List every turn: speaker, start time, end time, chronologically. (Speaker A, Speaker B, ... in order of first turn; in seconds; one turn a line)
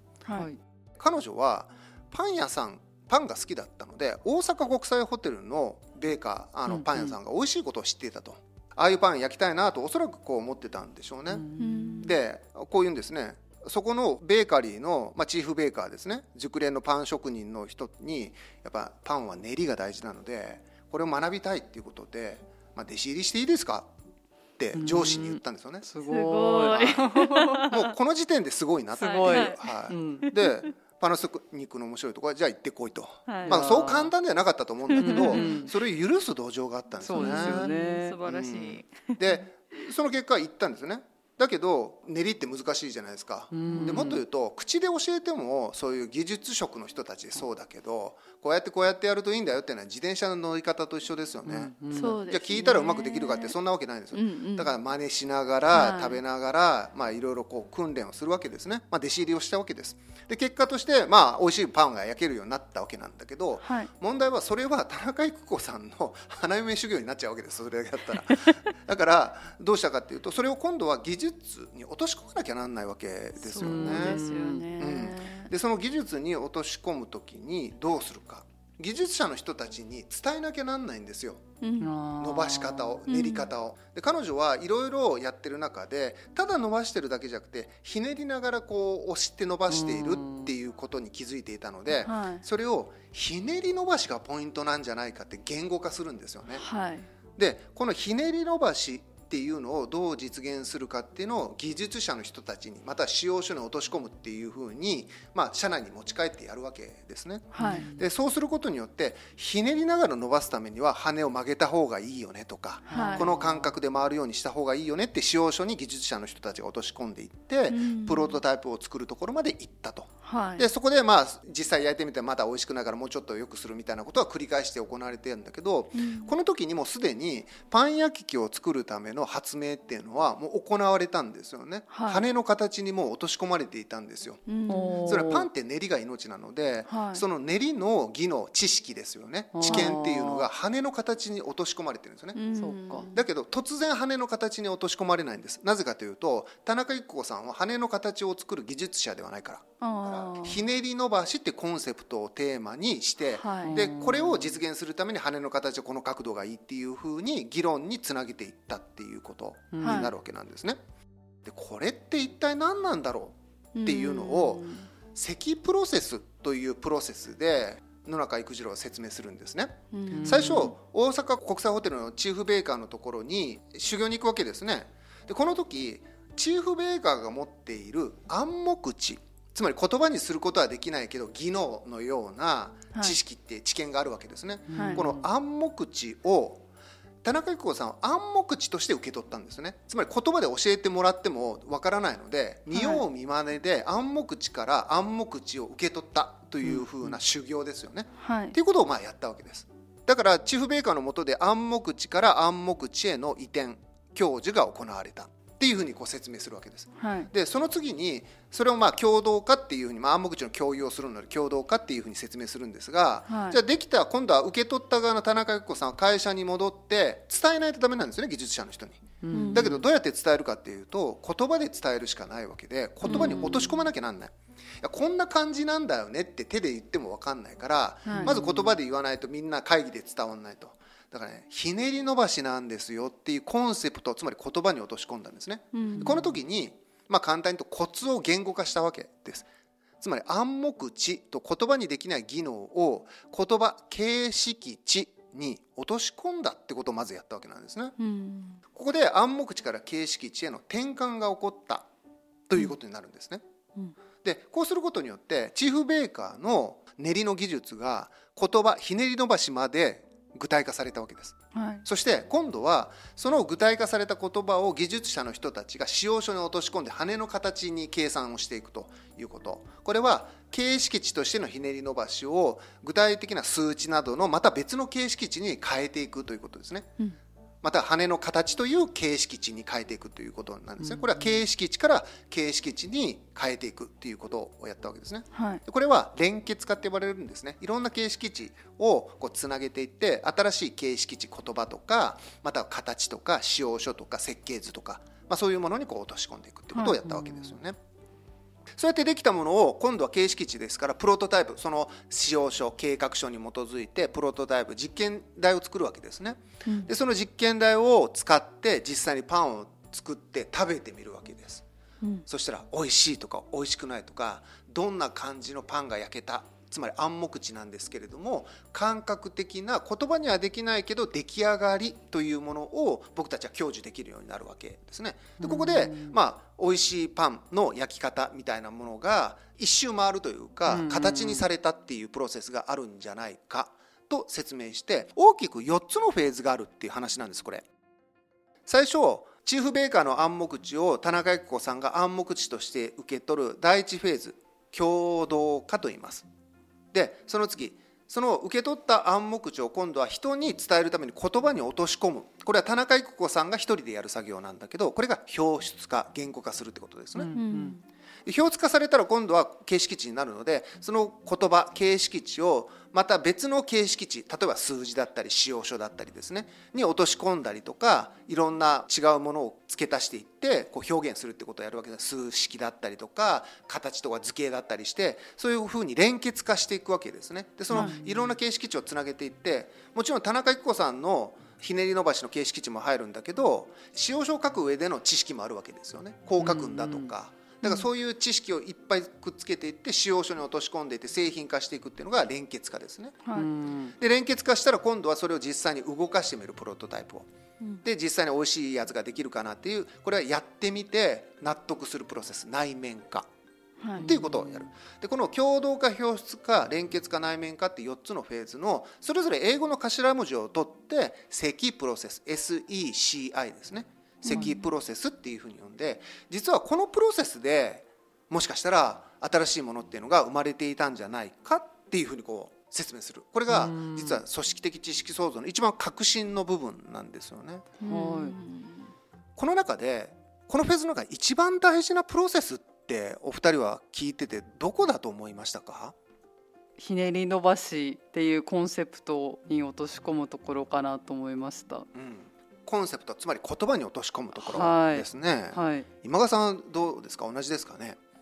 Speaker A: 0.3-0.6
Speaker B: 1.0-11.5
Speaker A: 6.7-7.2
Speaker A: 11.3-12.1
Speaker C: 11.6-12.2
Speaker B: 12.0-23.9
Speaker B: 24.6-25.9
Speaker A: 24.7-27.6
Speaker C: 26.1-27.9
Speaker B: 26.8-27.0
Speaker B: 27.7-37.7
Speaker A: 29.0-30.3
Speaker C: 29.0-30.7
Speaker C: 33.3-33.6
Speaker A: 33.5-34.1
Speaker C: 34.9-35.5
Speaker A: 35.0-35.7
Speaker A: 37.0-38.2
Speaker C: 37.1-39.3
Speaker B: 38.2-74.2
Speaker A: 43.5-44.2
Speaker A: 51.5-52.2
Speaker C: 51.9-53.6
Speaker C: 54.1-54.7
Speaker C: 55.7-56.2
Speaker C: 63.6-63.9
Speaker C: 73.4-75.5
Speaker A: 73.6-74.7
Speaker B: 74.8-81.4
Speaker C: 81.6-81.9
Speaker A: 81.8-83.0
Speaker B: 82.2-96.6
Speaker C: 83.1-83.5
Speaker A: 89.7-90.5
Speaker C: 92.0-92.4
Speaker C: 96.6-97.1
Speaker B: 97.4-134.4
Speaker C: 107.5-107.8
Speaker A: 107.6-108.0
Speaker A: 112.9-113.7
Speaker C: 112.9-113.3
Speaker C: 117.7-118.4
Speaker C: 120.2-120.7
Speaker C: 126.0-126.3
Speaker C: 131.9-132.2
Speaker C: 134.5-135.2
Speaker A: 134.7-135.5
Speaker B: 135.1-142.4
Speaker C: 136.9-137.2
Speaker A: 139.5-140.5
Speaker C: 139.7-139.9
Speaker C: 142.3-143.2
Speaker A: 142.6-143.1
Speaker B: 143.1-160.8
Speaker C: 149.8-150.6
Speaker C: 153.4-153.8
Speaker A: 153.6-154.6
Speaker A: 159.7-160.1
Speaker C: 159.8-160.1
Speaker B: 161.4-186.7
Speaker C: 163.8-164.9
Speaker C: 169.9-170.7
Speaker A: 170.1-170.7
Speaker A: 184.7-185.3
Speaker C: 184.7-185.0
Speaker B: 187.2-239.5
Speaker C: 192.7-193.0
Speaker C: 198.2-198.6
Speaker C: 207.0-207.3
Speaker C: 213.3-213.6
Speaker A: 219.2-219.8
Speaker C: 219.3-219.7
Speaker C: 223.1-223.8
Speaker A: 223.1-223.4
Speaker C: 228.1-228.3
Speaker A: 228.1-228.8
Speaker C: 235.7-236.1
Speaker A: 236.0-236.4
Speaker B: 240.0-247.9
Speaker C: 248.0-248.6
Speaker B: 248.7-251.9
Speaker B: 252.5-253.4
Speaker B: 254.2-276.9
Speaker C: 261.5-261.9
Speaker B: 277.6-297.8
Speaker A: 280.8-281.4
Speaker C: 285.3-285.6
Speaker C: 296.8-297.0
Speaker A: 296.9-297.6
Speaker B: 298.8-311.6
Speaker B: 312.3-337.7
Speaker A: 325.4-326.2
Speaker A: 330.7-331.5
Speaker B: 338.7-346.3
Speaker B: 346.9-357.4
Speaker A: 357.1-357.8
Speaker C: 357.4-357.8
Speaker B: 358.2-393.2
Speaker A: 377.7-378.3
Speaker C: 377.7-378.0
Speaker A: 386.4-387.1
Speaker A: 393.4-393.9
Speaker B: 394.0-397.3
Speaker B: 397.8-403.3
Speaker C: 403.8-404.1
Speaker A: 404.0-404.7
Speaker B: 404.0-427.7
Speaker C: 414.2-414.5
Speaker A: 414.3-414.6
Speaker A: 423.5-424.2
Speaker C: 427.8-428.9
Speaker A: 427.8-428.4
Speaker B: 429.4-435.9
Speaker A: 436.8-441.9
Speaker B: 441.9-448.0
Speaker A: 444.4-445.9